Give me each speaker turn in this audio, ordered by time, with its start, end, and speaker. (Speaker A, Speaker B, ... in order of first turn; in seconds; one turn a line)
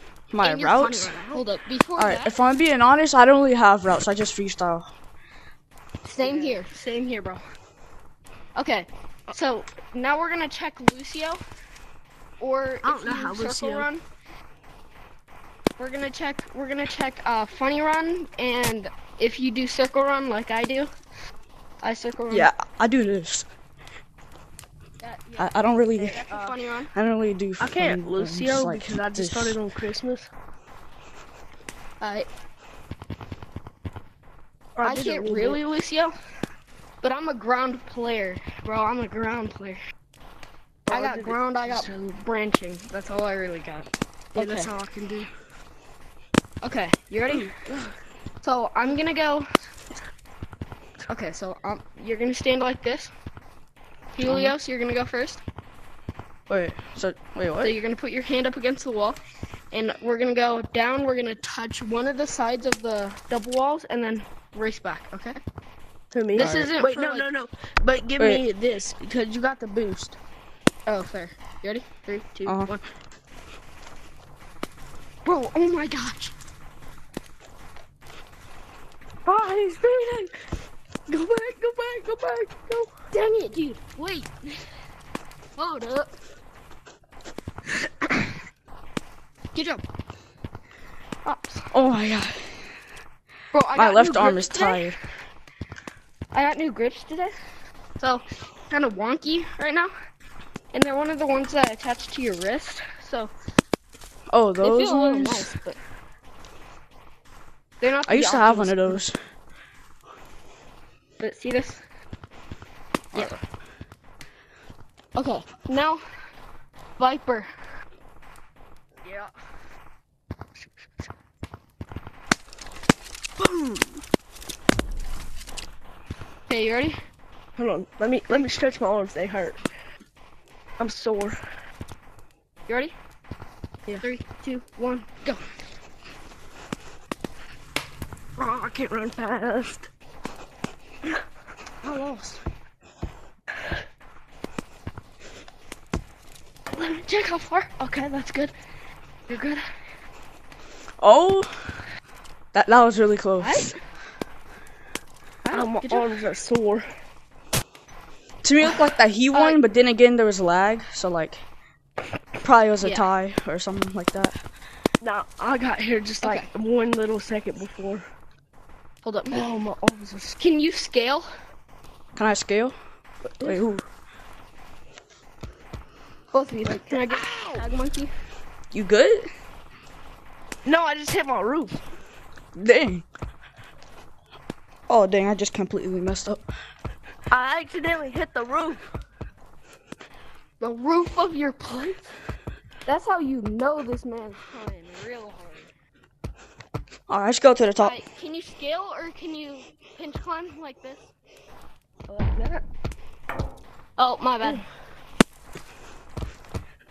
Speaker A: 0.3-1.2
Speaker B: 0.4-2.4
Speaker A: 2.0-4.9
Speaker C: 6.1-6.6
Speaker B: 6.1-7.4
Speaker B: 8.6-11.4
Speaker B: 12.4-14.0
Speaker C: 12.8-13.9
Speaker B: 15.8-20.9
Speaker B: 21.8-22.5
Speaker A: 22.3-23.5
Speaker B: 25.0-26.9
Speaker A: 25.4-26.2
Speaker C: 26.1-26.5
Speaker A: 26.9-29.6
Speaker C: 27.6-30.3
Speaker B: 32.0-32.3
Speaker C: 34.8-35.6
Speaker B: 34.8-36.1
Speaker B: 37.0-39.8
Speaker C: 40.9-41.9
Speaker B: 40.9-44.7
Speaker C: 44.4-45.3
Speaker B: 46.6-47.5
Speaker C: 47.3-47.9
Speaker B: 48.4-49.5
Speaker B: 51.1-53.1
Speaker B: 54.1-55.4
Speaker A: 54.2-54.5
Speaker A: 56.5-57.8
Speaker B: 57.6-59.2
Speaker B: 59.7-65.4
Speaker C: 66.1-70.2
Speaker B: 66.3-67.3
Speaker A: 66.4-66.7
Speaker A: 68.2-68.4
Speaker B: 70.9-72.8
Speaker A: 72.4-72.7
Speaker B: 75.2-76.3
Speaker C: 79.2-80.3
Speaker B: 81.1-81.8
Speaker C: 81.2-82.9
Speaker B: 83.1-84.3
Speaker B: 85.5-86.1
Speaker B: 89.5-89.8
Speaker B: 91.2-91.7
Speaker A: 91.7-92.4
Speaker B: 93.5-94.9
Speaker A: 93.7-95.0
Speaker B: 96.3-97.3
Speaker B: 98.0-99.9
Speaker B: 100.7-103.3
Speaker A: 104.3-105.5
Speaker B: 104.6-105.8
Speaker B: 107.8-109.0
Speaker A: 108.0-109.2
Speaker B: 111.2-111.8
Speaker B: 115.2-116.0
Speaker B: 117.0-117.5
Speaker C: 119.0-119.3
Speaker C: 123.4-124.0
Speaker B: 126.5-126.9
Speaker C: 127.5-129.6
Speaker C: 130.8-131.4
Speaker B: 132.7-132.9
Speaker B: 134.0-135.4
Speaker C: 138.4-139.9
Speaker B: 141.8-142.4
Speaker B: 146.8-148.3
Speaker C: 148.0-148.5
Speaker B: 149.3-149.6
Speaker A: 151.0-151.5
Speaker A: 152.5-153.7
Speaker B: 153.4-153.8
Speaker B: 155.4-156.1
Speaker C: 155.5-156.8
Speaker A: 158.4-161.4
Speaker B: 159.3-159.6
Speaker A: 162.4-164.4
Speaker B: 162.8-163.1
Speaker C: 165.0-168.0
Speaker B: 166.2-166.5
Speaker B: 169.0-169.4
Speaker C: 169.3-170.3
Speaker B: 170.4-171.3
Speaker A: 172.2-172.8
Speaker A: 173.3-173.8
Speaker B: 176.3-178.1
Speaker C: 176.6-177.6
Speaker A: 178.7-179.3
Speaker C: 180.7-181.8
Speaker A: 182.5-183.0
Speaker A: 184.9-186.4
Speaker C: 187.3-188.8
Speaker B: 190.6-192.0
Speaker B: 192.8-195.7
Speaker A: 197.1-198.0
Speaker B: 197.8-201.1
Speaker C: 202.1-202.6
Speaker B: 204.0-204.6